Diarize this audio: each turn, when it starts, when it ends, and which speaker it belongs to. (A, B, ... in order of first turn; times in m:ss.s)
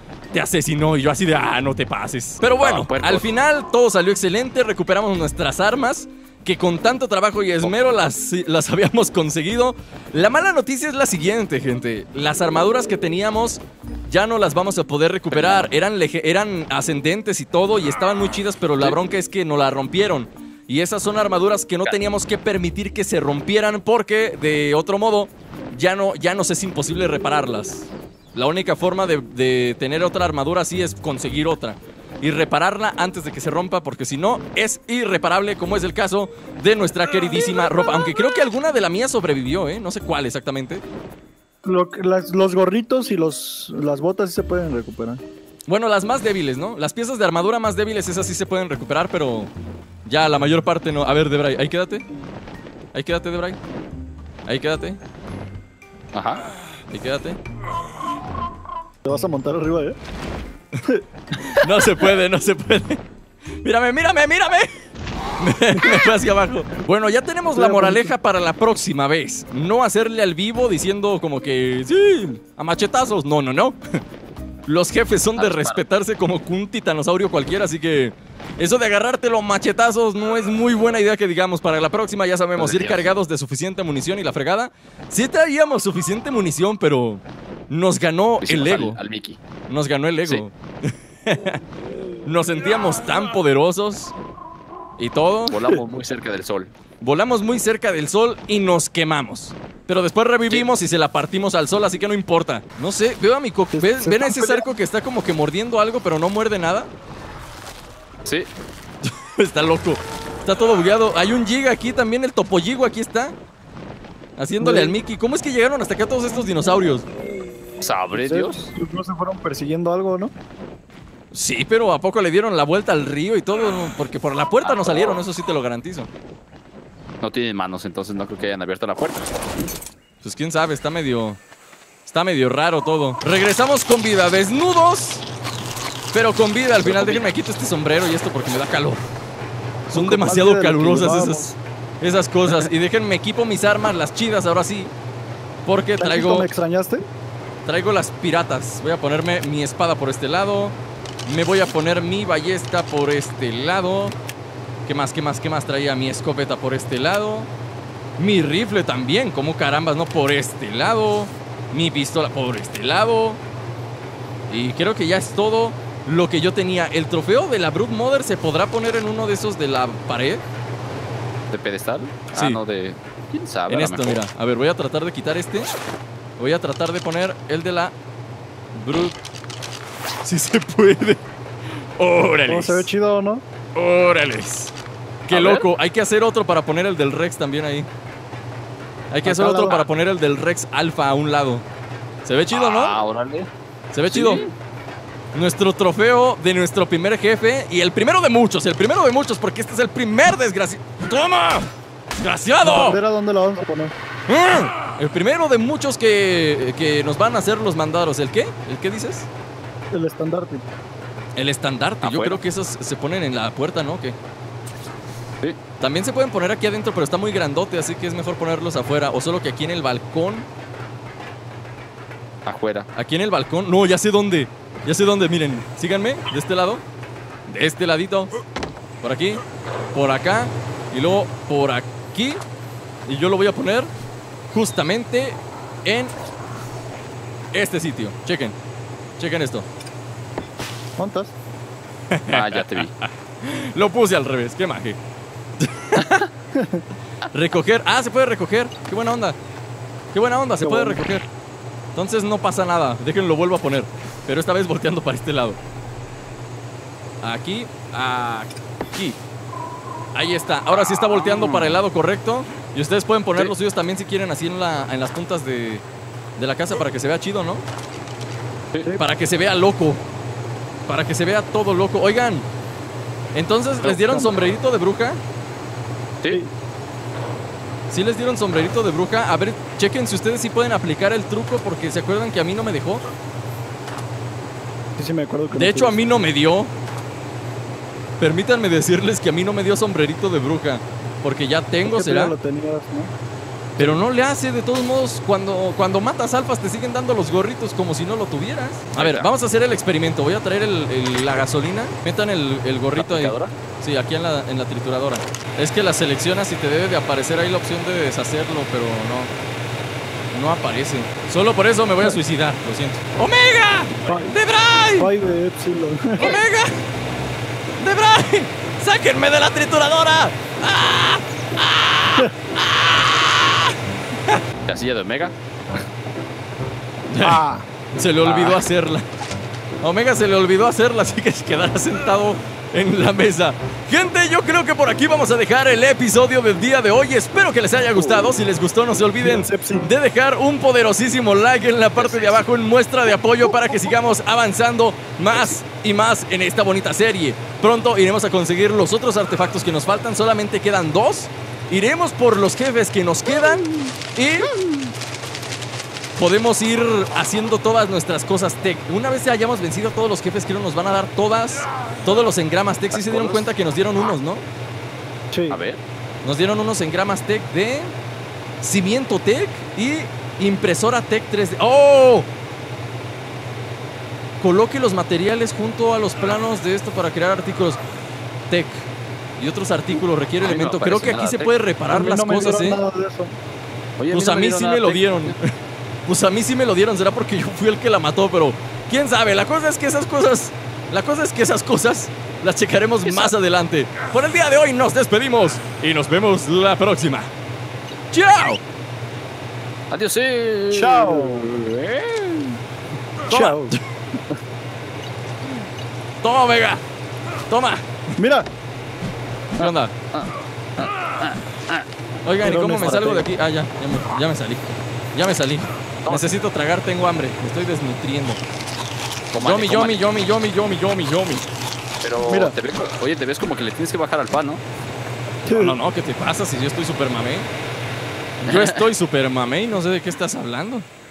0:00.3-0:40.8 A
0:02.6-0:03.2 B
0:15.3-0:15.7 B
0:41.6-0:45.2 C
0:45.7-0:49.5 A
0:50.0-0:52.0 A
0:52.9-0:53.6 A
0:54.4-0:55.0 A
0:56.1-0:56.4 B
0:56.9-0:57.4 A
0:59.0-1:00.0 C
1:01.4-1:03.0 A
1:03.6-1:04.7 A
1:05.4-1:14.0 A
1:07.5-1:08.1 C
1:14.6-1:29.0 A
1:15.4-1:15.8 B
1:22.6-1:23.1 B
1:28.4-1:29.4 B
1:29.7-1:31.6 A
1:32.2-1:34.1 A
1:35.0-1:35.6 A
1:35.5-1:36.7 B
1:37.0-1:46.9 A
1:43.7-1:44.7 C
1:49.0-1:53.4 A
1:54.4-1:57.0 A
1:54.6-1:55.0 C
1:57.8-1:58.6 B
1:58.1-2:00.3 C
2:01.3-2:06.1 A
2:04.6-2:05.2 B
2:07.2-2:09.3 B
2:10.2-2:11.4 A
2:12.0-2:15.2 A
2:16.1-2:19.0 A
2:16.8-2:17.3 B
2:19.9-2:21.5 C
2:19.9-2:24.9 A
2:25.6-2:26.6 A
2:26.0-2:27.0 C
2:27.6-2:34.2 A
2:34.8-2:37.5 A
2:38.2-2:43.4 A
2:44.5-2:50.4 A
2:51.5-2:54.2 B
2:53.7-2:55.7 A
2:56.4-2:57.9 A
2:58.7-2:59.2 A
3:00.2-3:01.2 A
3:02.0-3:02.9 A
3:02.5-3:03.4 C
3:03.8-3:04.7 A
3:05.3-3:07.9 A
3:05.3-3:05.6 B
3:09.1-3:11.6 A
3:09.2-3:09.8 C
3:12.2-3:12.9 A
3:12.5-3:13.5 B
3:13.9-3:14.4 A
3:14.1-3:14.5 B
3:15.3-3:23.0 A
3:22.6-3:23.9 C
3:24.3-3:29.3 A
3:29.9-3:30.7 C
3:31.4-3:34.2 A
3:32.0-3:32.4 B
3:35.8-3:40.5 A
3:42.4-3:42.9 B
3:42.9-3:46.8 A
3:47.5-3:48.3 A
3:49.0-3:49.4 A
3:49.9-3:52.4 A
3:53.0-3:53.9 A
3:54.5-3:56.1 A
3:57.5-3:58.6 A
3:59.2-3:59.6 A
4:01.0-4:01.3 C
4:02.1-4:05.0 A
4:02.3-4:02.9 B
4:05.6-4:06.2 A
4:06.5-4:06.8 C
4:07.3-4:09.4 A
4:10.1-4:11.2 A
4:10.6-4:11.0 C
4:11.9-4:15.6 A
4:17.2-4:19.2 A
4:20.1-4:25.8 A
4:20.7-4:21.8 B
4:26.4-4:27.6 A
4:29.0-4:30.0 A
4:30.9-4:32.5 A
4:33.3-4:35.2 A
4:33.8-4:34.2 B
4:37.9-4:43.0 A
4:45.0-4:46.0 C
4:45.5-4:46.7 A
4:48.2-4:52.3 A
4:51.8-4:53.1 C
4:53.8-5:09.3 A
4:59.0-4:59.3 B
5:03.0-5:03.5 B
5:10.3-5:15.1 A
5:14.0-5:14.4 C
5:15.0-5:16.4 C
5:16.2-5:16.8 A
5:17.8-5:23.7 A
5:24.6-5:25.3 B
5:27.1-5:29.1 A
5:27.2-5:27.6 C
5:28.2-5:28.6 B
5:29.8-5:54.5 A
5:37.9-5:38.3 B
5:39.2-5:39.9 C
5:42.0-5:42.4 B
5:56.2-6:04.4 A
6:02.9-6:03.4 B
6:05.3-6:05.6 C
6:05.5-6:05.8 B
6:06.2-6:07.9 A
6:08.6-6:12.3 A
6:14.4-6:17.8 A
6:18.5-6:22.8 A
6:20.5-6:21.5 B
6:21.9-6:23.4 C
6:24.0-6:25.4 B
6:24.1-6:25.5 A
6:26.0-6:37.3 A
6:33.0-6:33.3 B
6:38.1-6:38.6 A
6:39.9-6:42.6 B
6:40.7-6:41.5 C
6:43.3-6:43.8 A
6:43.3-6:43.7 C
6:46.2-6:46.8 A
6:47.5-6:47.9 A
6:48.2-6:48.5 C
6:49.6-6:49.9 A
6:49.6-6:51.8 B
6:52.2-6:58.4 A
6:52.4-6:53.2 C
6:59.3-7:00.0 B
6:59.4-7:01.4 A
7:02.0-7:04.6 B
7:02.2-7:02.5 C
7:05.4-7:05.8 C
7:05.4-7:07.5 A
7:08.4-7:10.8 A
7:08.4-7:08.8 B